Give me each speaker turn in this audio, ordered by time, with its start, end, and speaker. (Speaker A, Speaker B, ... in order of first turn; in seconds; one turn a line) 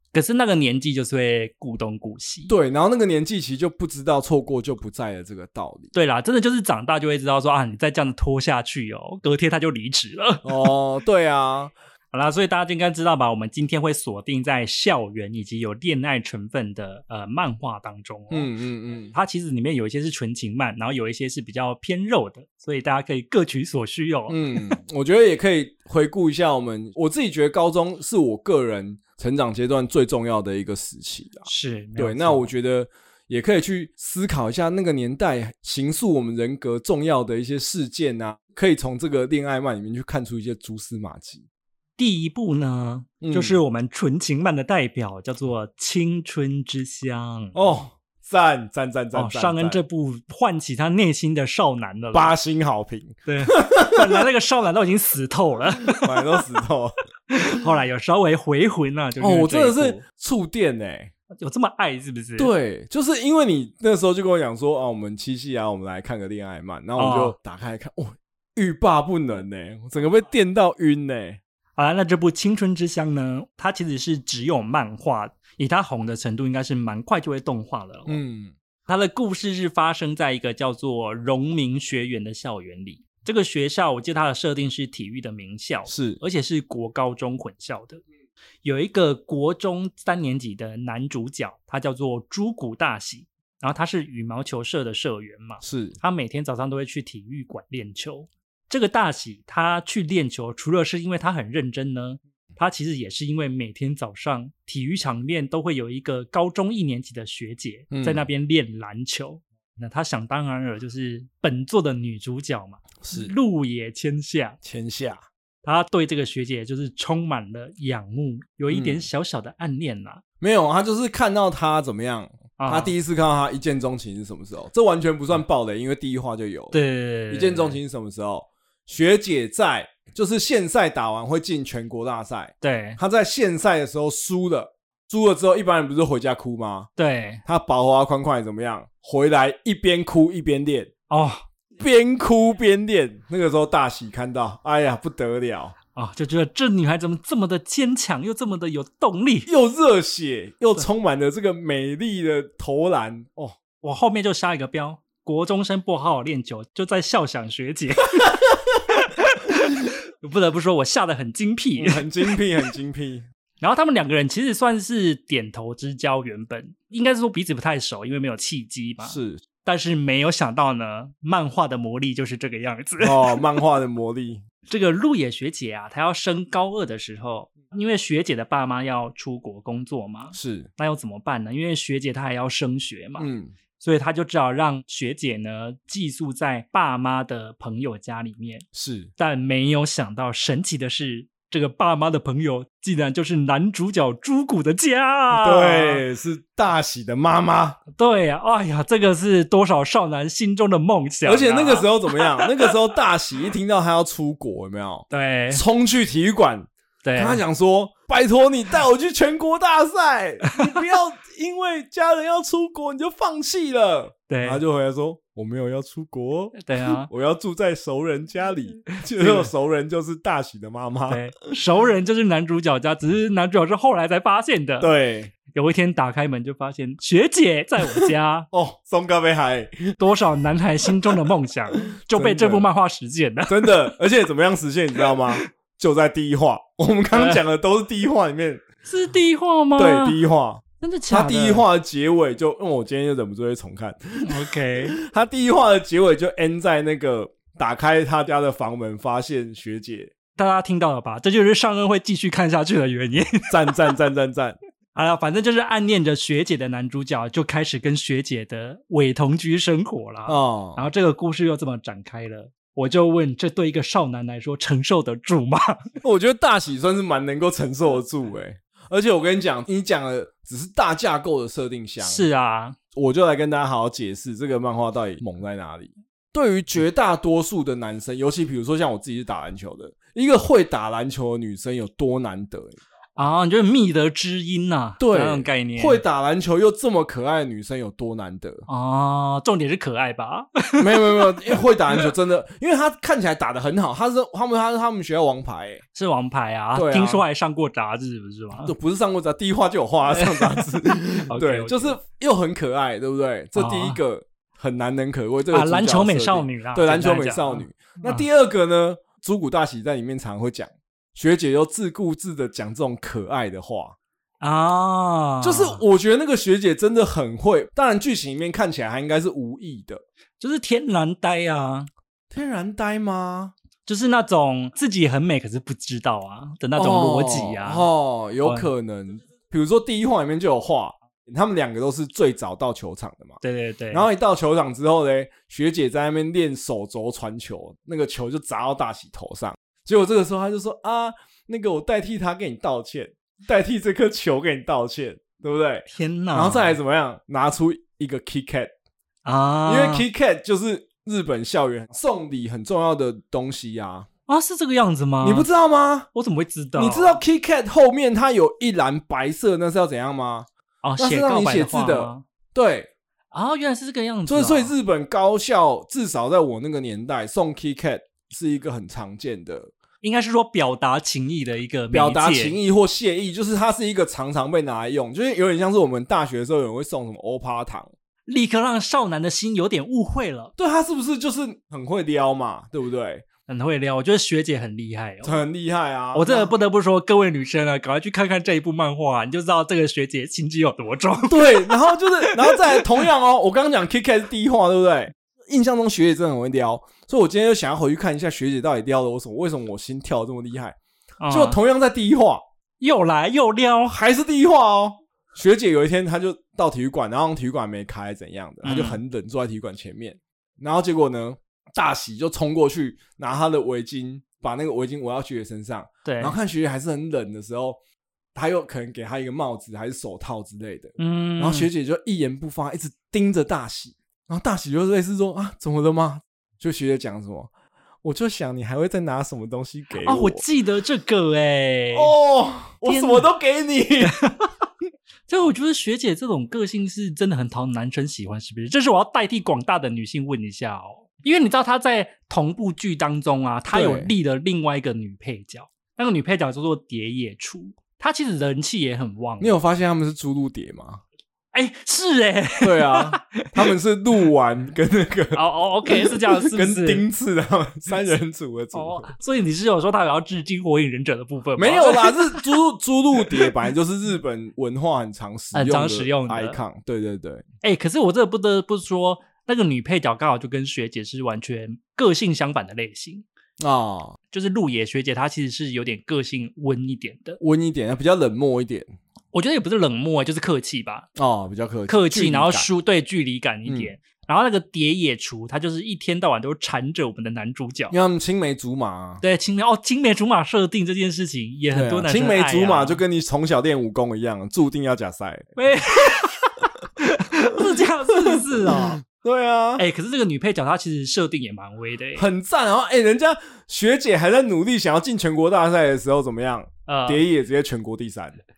Speaker A: 0.1-2.5
Speaker B: 2.5-5.9
Speaker A: 5.9-10.7
Speaker B: 10.4-11.7
Speaker A: 12.1-18.5
Speaker B: 18.3-19.1
Speaker A: 19.1-24.8
Speaker B: 24.3-41.5
Speaker A: 31.4-32.5
Speaker A: 42.0-47.6
Speaker B: 43.2-43.6
Speaker B: 47.5-49.8
Speaker A: 49.1-52.3
Speaker B: 52.1-54.2
Speaker A: 53.2-56.4
Speaker B: 55.9-56.9
Speaker A: 57.3-60.0
Speaker B: 59.2-61.1
Speaker A: 61.4-62.5
Speaker B: 62.4-71.4
Speaker A: 67.0-67.3
Speaker A: 71.8-78.2
Speaker B: 78.1-78.5
Speaker A: 78.9-88.0
Speaker B: 85.9-86.2
Speaker A: 88.6-114.6
Speaker B: 95.6-96.0
Speaker B: 107.9-108.2
Speaker B: 113.0-113.3
Speaker B: 114.6-115.2
Speaker A: 115.6-120.2
Speaker B: 118.7-119.1
Speaker B: 120.4-126.8
Speaker A: 122.6-122.9
Speaker A: 126.7-127.8
Speaker B: 127.3-136.9
Speaker A: 132.6-133.0
Speaker A: 137.0-137.4
Speaker B: 137.4-140.9
Speaker A: 141.1-141.4
Speaker B: 141.8-145.8
Speaker A: 145.9-149.5
Speaker B: 149.5-153.5
Speaker A: 153.8-158.4
Speaker A: 158.9-162.3
Speaker B: 161.8-163.2
Speaker A: 163.6-173.4
Speaker B: 169.0-169.4
Speaker B: 173.0-174.4
Speaker A: 174.7-188.6
Speaker B: 180.3-180.7
Speaker B: 183.2-183.5
Speaker B: 188.7-189.1
Speaker A: 189.2-196.0
Speaker B: 195.3-197.8
Speaker A: 198.0-202.6
Speaker B: 201.2-221.2
Speaker A: 205.1-205.6
Speaker A: 207.0-207.4
Speaker A: 214.3-214.6
Speaker A: 216.6-217.1
Speaker A: 218.9-219.5
Speaker A: 221.1-224.9
Speaker B: 224.8-225.3
Speaker A: 225.5-228.5
Speaker B: 227.9-230.0
Speaker A: 230.0-233.9
Speaker B: 230.8-231.1
Speaker B: 231.8-232.7
Speaker B: 233.5-238.6
Speaker A: 237.1-237.4
Speaker A: 238.8-240.2
Speaker B: 239.8-250.1
Speaker A: 240.8-241.7
Speaker A: 244.2-245.0
Speaker A: 250.3-253.9
Speaker B: 253.5-254.6
Speaker A: 254.9-265.8
Speaker B: 260.3-260.8
Speaker B: 266.0-272.3
Speaker A: 272.0-272.8
Speaker B: 272.9-282.8
Speaker A: 283.2-286.0
Speaker B: 285.0-288.6
Speaker A: 288.7-292.0
Speaker B: 290.8-295.8
Speaker A: 295.9-298.7
Speaker B: 296.7-297.2
Speaker B: 298.6-313.9
Speaker A: 300.1-302.0
Speaker A: 303.6-304.0
Speaker A: 305.5-308.2
Speaker A: 314.4-315.8
Speaker B: 315.4-320.0
Speaker A: 320.4-321.9
Speaker B: 322.3-323.5
Speaker A: 323.9-327.9
Speaker B: 326.8-333.4
Speaker A: 328.4-328.7
Speaker A: 333.4-334.1
Speaker B: 333.9-348.7
Speaker A: 345.9-346.8
Speaker A: 349.2-350.1
Speaker B: 349.6-354.1
Speaker A: 354.3-355.5
Speaker B: 355.2-356.1
Speaker A: 356.1-357.2
Speaker B: 356.8-360.5
Speaker A: 360.8-362.2
Speaker B: 361.0-362.9
Speaker A: 363.3-364.7
Speaker B: 364.3-369.7
Speaker A: 370.0-372.6
Speaker B: 371.9-377.9
Speaker A: 378.3-380.5
Speaker B: 380.6-383.2
Speaker A: 383.5-385.4
Speaker B: 385.2-386.5
Speaker A: 386.1-393.0
Speaker B: 391.3-400.8
Speaker A: 401.2-401.6
Speaker B: 401.3-402.4
Speaker A: 402.8-404.0
Speaker B: 403.9-417.8
Speaker A: 408.6-409.0
Speaker A: 416.0-416.4
Speaker B: 418.3-427.5
Speaker A: 421.0-421.7
Speaker B: 428.0-430.4
Speaker A: 429.9-432.1
Speaker B: 431.9-434.2
Speaker A: 432.8-433.3
Speaker A: 434.0-434.5
Speaker A: 435.3-449.6
Speaker B: 443.7-444.1
Speaker B: 449.4-451.0
Speaker A: 451.5-453.7
Speaker B: 452.6-459.1
Speaker A: 455.3-457.0
Speaker A: 458.7-462.5
Speaker B: 461.6-467.4
Speaker A: 465.5-466.6
Speaker A: 467.6-473.2
Speaker B: 473.6-474.2
Speaker A: 474.3-477.4
Speaker B: 477.4-478.9
Speaker A: 479.3-481.1
Speaker B: 481.1-482.7
Speaker A: 481.9-487.9
Speaker B: 483.6-483.9
Speaker B: 487.9-489.2
Speaker A: 489.2-493.0
Speaker B: 491.7-495.5
Speaker A: 495.6-499.0
Speaker B: 498.1-499.8
Speaker A: 499.8-502.3
Speaker B: 502.1-508.4
Speaker A: 506.9-507.2